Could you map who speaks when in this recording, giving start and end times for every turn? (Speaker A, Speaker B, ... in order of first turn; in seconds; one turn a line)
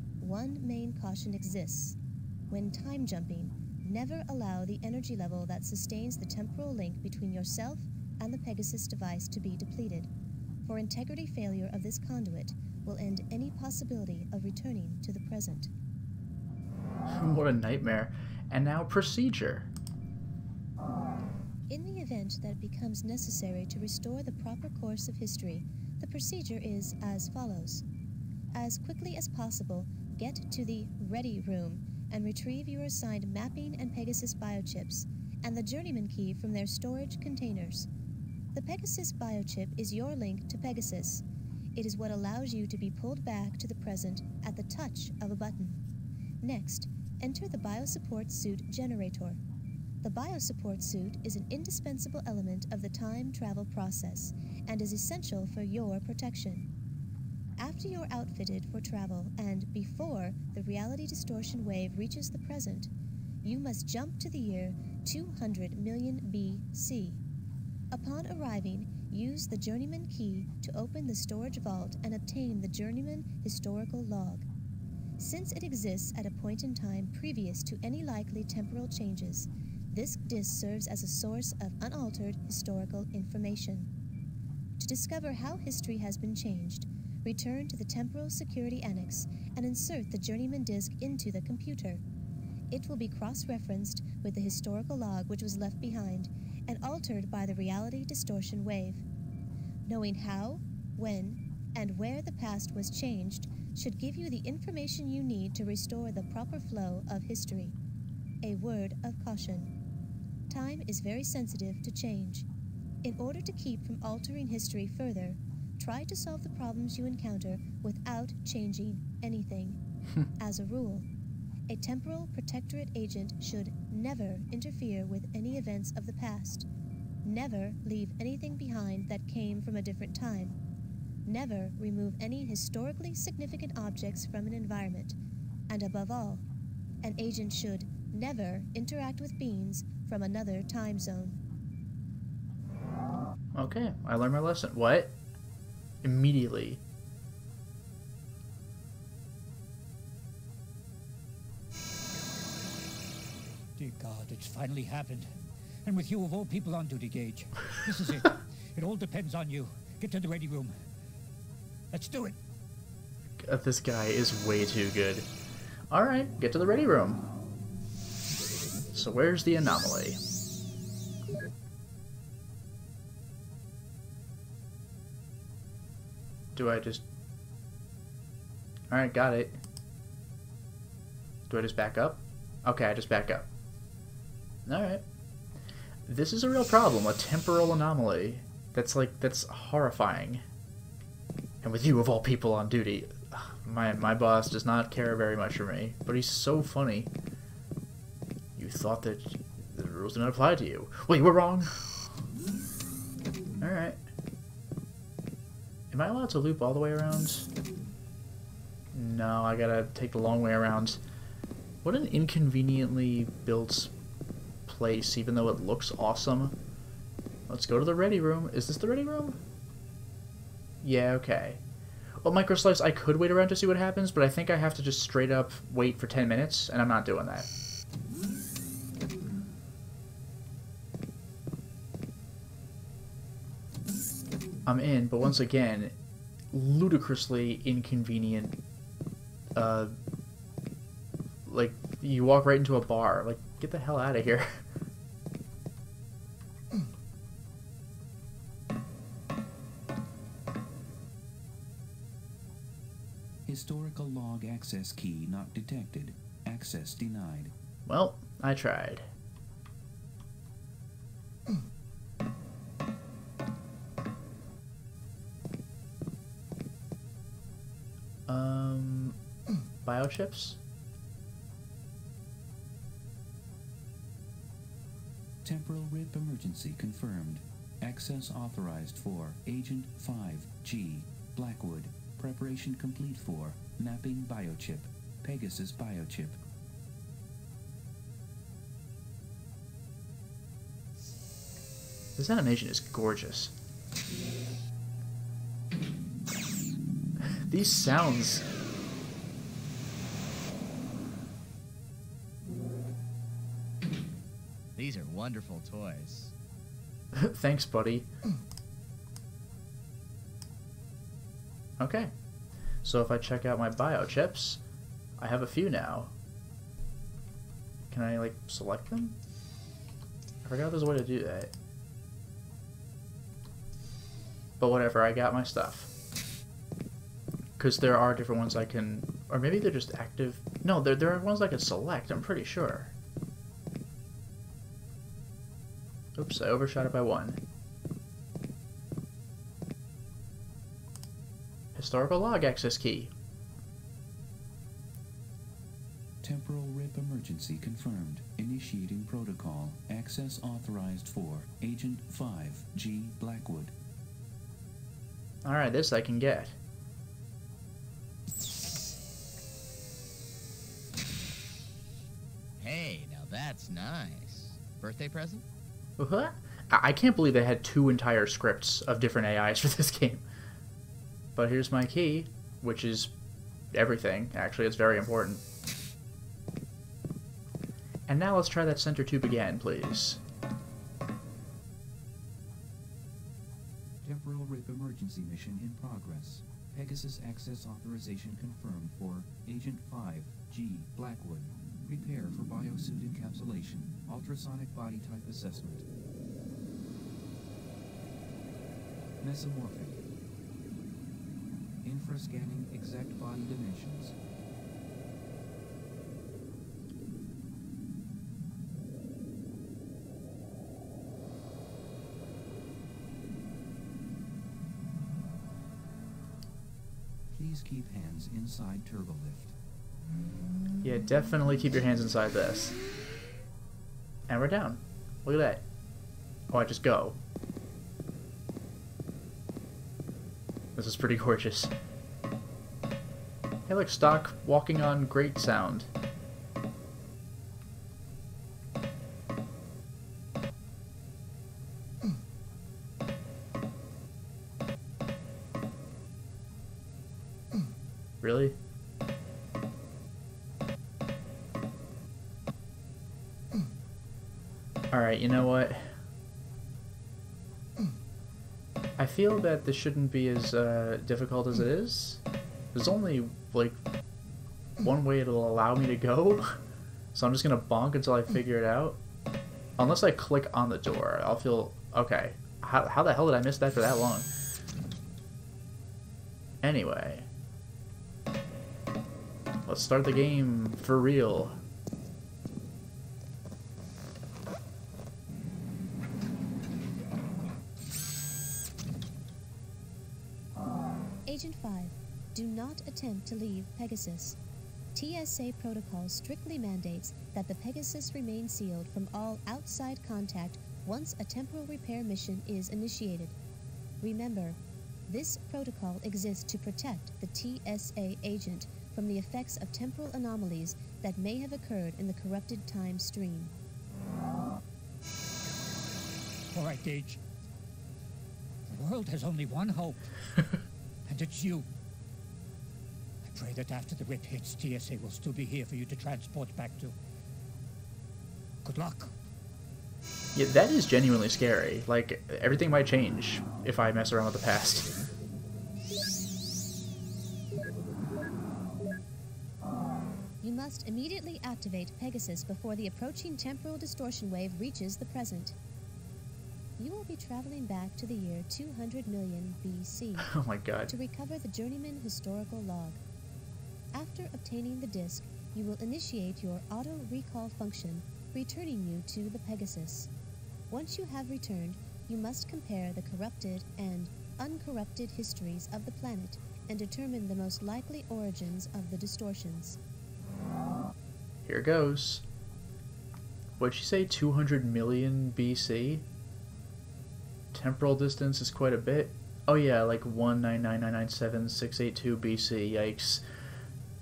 Speaker A: 0.2-2.0
Speaker A: 2.5-10.1
Speaker A: 10.6-15.7
Speaker B: 17.1-19.7
Speaker A: 21.7-27.8
Speaker A: 28.5-37.9
Speaker A: 38.5-41.2
Speaker A: 41.8-45.8
Speaker A: 46.4-49.4
Speaker A: 50.0-56.7
Speaker A: 57.6-62.9
Speaker A: 63.4-67.2
Speaker A: 67.9-74.5
Speaker A: 75.2-83.9
Speaker A: 84.8-92.0
Speaker A: 92.7-99.0
Speaker A: 99.9-107.8
Speaker A: 108.4-109.7
Speaker A: 110.5-112.5
Speaker A: 113.0-119.8
Speaker A: 120.4-121.1
Speaker A: 121.7-126.7
Speaker A: 127.2-130.6
Speaker A: 131.3-135.2
Speaker A: 135.7-136.4
Speaker A: 137.0-141.4
Speaker B: 143.5-145.2
Speaker B: 146.0-146.8
Speaker C: 153.8-160.8
Speaker C: 161.9-162.4
Speaker B: 163.4-165.3
Speaker B: 165.9-167.2
Speaker B: 168.9-170.2
Speaker B: 176.6-177.0
Speaker B: 178.9-179.6
Speaker B: 181.5-183.5
Speaker B: 184.7-185.0
Speaker B: 186.1-190.4
Speaker B: 191.6-197.1
Speaker B: 198.6-202.1
Speaker B: 203.6-204.0
Speaker B: 205.9-207.5
Speaker B: 208.9-211.0
Speaker B: 211.8-213.9
Speaker B: 214.7-216.6
Speaker B: 217.5-219.4
Speaker B: 220.8-221.6
Speaker B: 222.2-227.5
Speaker B: 234.7-235.9
Speaker B: 236.5-238.6
Speaker B: 239.6-239.9
Speaker B: 241.5-244.6
Speaker D: 253.5-257.5
Speaker B: 257.9-259.1
Speaker B: 268.3-269.2
Speaker B: 269.9-270.6
Speaker D: 275.4-286.4
Speaker B: 292.2-293.5
Speaker B: 297.5-298.4
Speaker E: 304.8-306.3
Speaker B: 307.1-308.1
Speaker B: 311.8-312.1
Speaker B: 312.8-314.6
Speaker B: 315.2-316.1
Speaker B: 317.9-319.2
Speaker B: 320.4-321.5
Speaker B: 324.6-325.9
Speaker B: 327.6-332.9
Speaker B: 336.2-337.4
Speaker B: 341.8-343.1
Speaker D: 346.2-353.7
Speaker B: 355.4-356.6
Speaker E: 362.6-365.4
Speaker B: 366.0-370.2
Speaker B: 371.4-373.1
Speaker B: 373.7-375.4
Speaker B: 378.1-380.2
Speaker D: 384.0-395.9
Speaker D: 399.2-400.0
Speaker D: 401.8-404.1
Speaker D: 417.3-419.5
Speaker B: 420.8-422.8
Speaker B: 424.3-425.6
Speaker B: 426.5-427.2
Speaker B: 430.8-431.7
Speaker B: 433.7-435.9
Speaker B: 448.2-448.6
Speaker B: 454.9-455.9
Speaker B: 459.0-462.2
Speaker B: 462.7-463.8
Speaker B: 464.8-466.6
Speaker B: 467.1-469.0
Speaker B: 469.8-474.3
Speaker B: 476.6-477.3
Speaker B: 479.7-481.6
Speaker A: 491.3-494.4
Speaker A: 494.9-503.4
Speaker A: 504.0-513.5
Speaker C: 516.5-517.2
Speaker C: 518.7-520.1
Speaker C: 521.1-521.7
Speaker C: 523.2-527.0
Speaker C: 528.6-529.1
Speaker B: 530.4-535.0
Speaker A: 540.4-545.6
Speaker A: 546.8-550.3
Speaker B: 550.2-550.9
Speaker A: 550.9-553.0
Speaker A: 553.9-560.1
Speaker A: 560.7-569.8
Speaker B: 571.5-572.2
Speaker B: 573.6-576.0
Speaker B: 577.5-583.2